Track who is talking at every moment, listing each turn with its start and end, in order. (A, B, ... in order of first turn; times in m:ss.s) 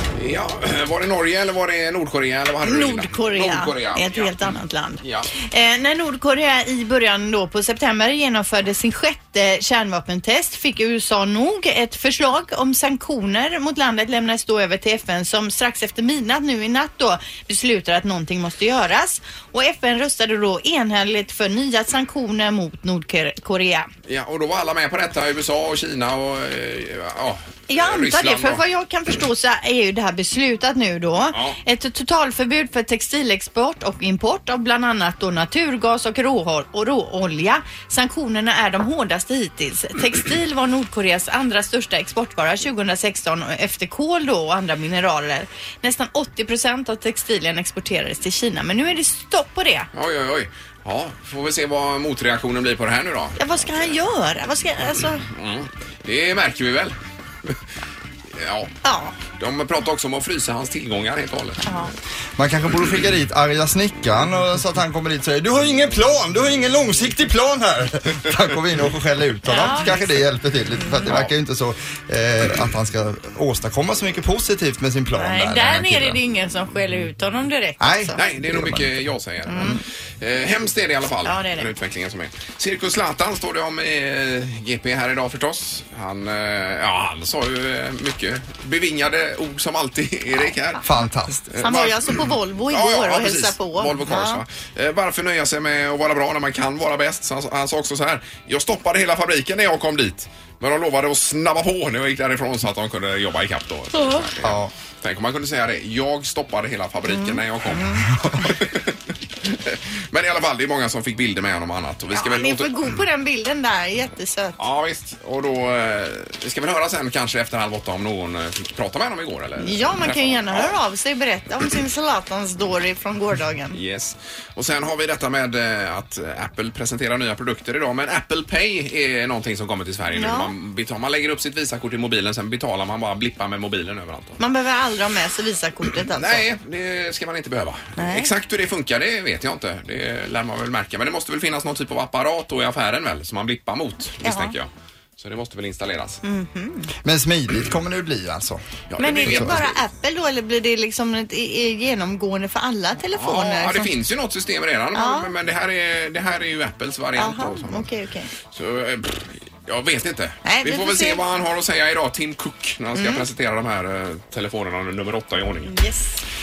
0:00.1-0:05.3 A
0:02.6-0:23.9 B
0:24.1-0:28.6 A
0:27.7-0:49.9 B
0:31.3-0:31.6 A
0:49.9-0:53.9 A
0:53.4-0:55.2 B
0:55.3-0:57.6 A
0:58.3-0:58.7 A
0:58.8-0:59.2 B
0:59.4-1:01.6 A
1:01.6-1:01.9 B
1:02.4-1:16.2 C
1:09.5-1:10.2 B
1:10.8-1:11.1 B
1:11.1-1:11.3 A
1:15.2-1:18.2 B
1:17.8-1:18.9 C
1:18.2-1:30.8 A
1:19.4-1:19.8 B
1:21.2-1:21.7 B
1:30.8-1:31.7 C
1:31.5-1:32.2 A
1:31.6-1:34.4 B
1:32.7-1:53.0 A
1:44.4-1:44.7 C
1:47.1-1:48.1 B
1:48.2-1:48.4 C
1:52.1-1:54.6 B
1:54.6-2:00.8 A
1:59.6-2:03.8 B
2:03.7-2:14.4 A
2:10.1-2:10.5 B
2:14.4-2:16.4 B
2:16.1-2:26.2 A
2:18.0-2:18.3 B
2:24.2-2:24.5 B
2:26.2-2:26.9 B
2:27.0-2:28.6 C
2:28.9-2:29.8 A
2:29.0-2:33.9 B
2:29.2-2:29.6 C
2:33.1-2:37.9 A
2:34.9-2:35.3 B
2:37.2-2:38.3 B
2:38.5-2:45.7 A
2:40.4-2:41.2 B
2:42.9-2:43.2 B
2:45.6-2:46.2 B